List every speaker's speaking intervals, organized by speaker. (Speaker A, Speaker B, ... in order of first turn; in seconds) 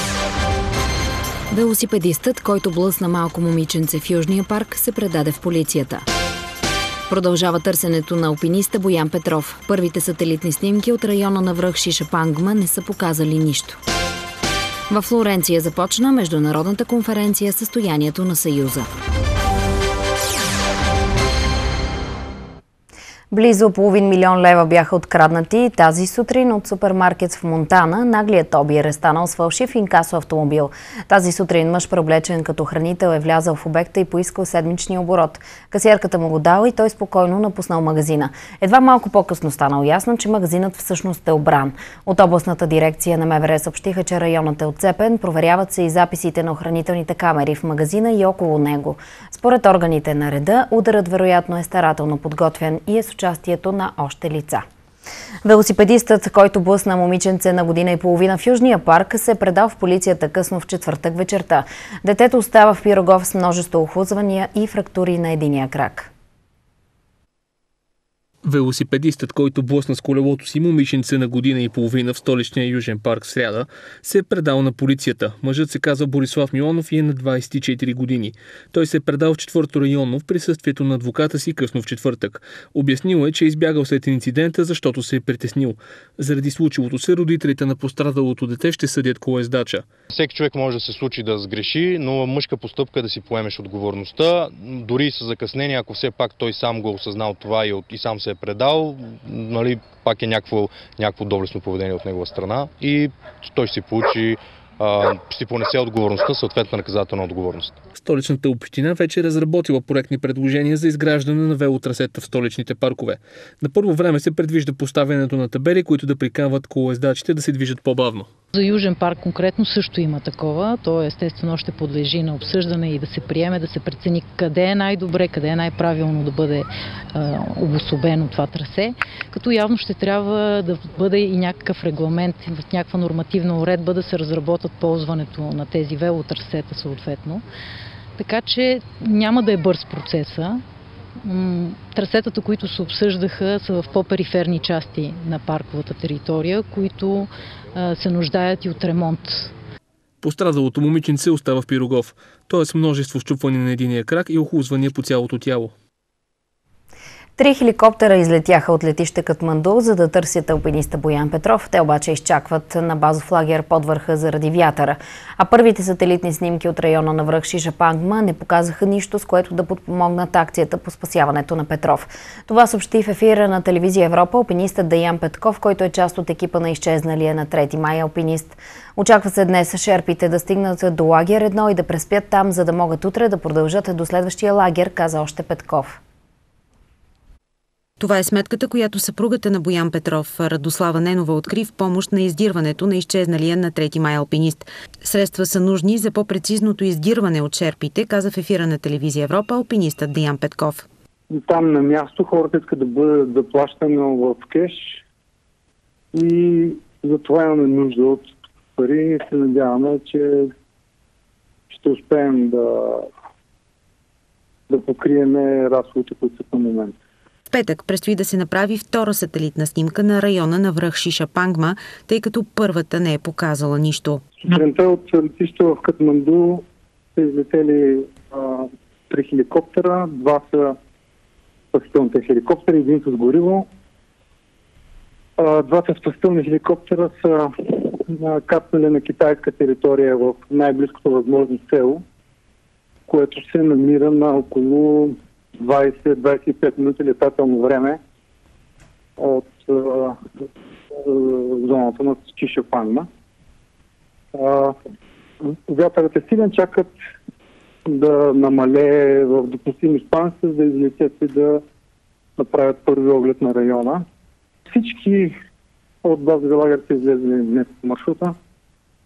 Speaker A: 1.5-6.0, 7.1-13.8, 14.9-18.9, 23.3-54.6, 55.4-66.1, 157.4-186.0
Speaker B: 68.4-89.8, 108.0-118.3, 150.2-155.7
Speaker C: 90.1-107.8
Speaker D: 118.5-137.4, 138.2-140.6, 141.2-149.5
Speaker E: 188.0-200.9, 217.5-224.2
Speaker F: 201.3-205.0, 206.1-210.5, 211.7-213.1, 214.7-216.9, 224.3-226.6, 227.2-230.8, 231.7-233.7, 235.4-242.0, 243.1-248.0, 249.2-250.2, 250.9-253.1, 254.3-254.8, 255.4-256.9, 257.9-261.6, 262.4-264.0, 264.7-265.3, 266.0-268.4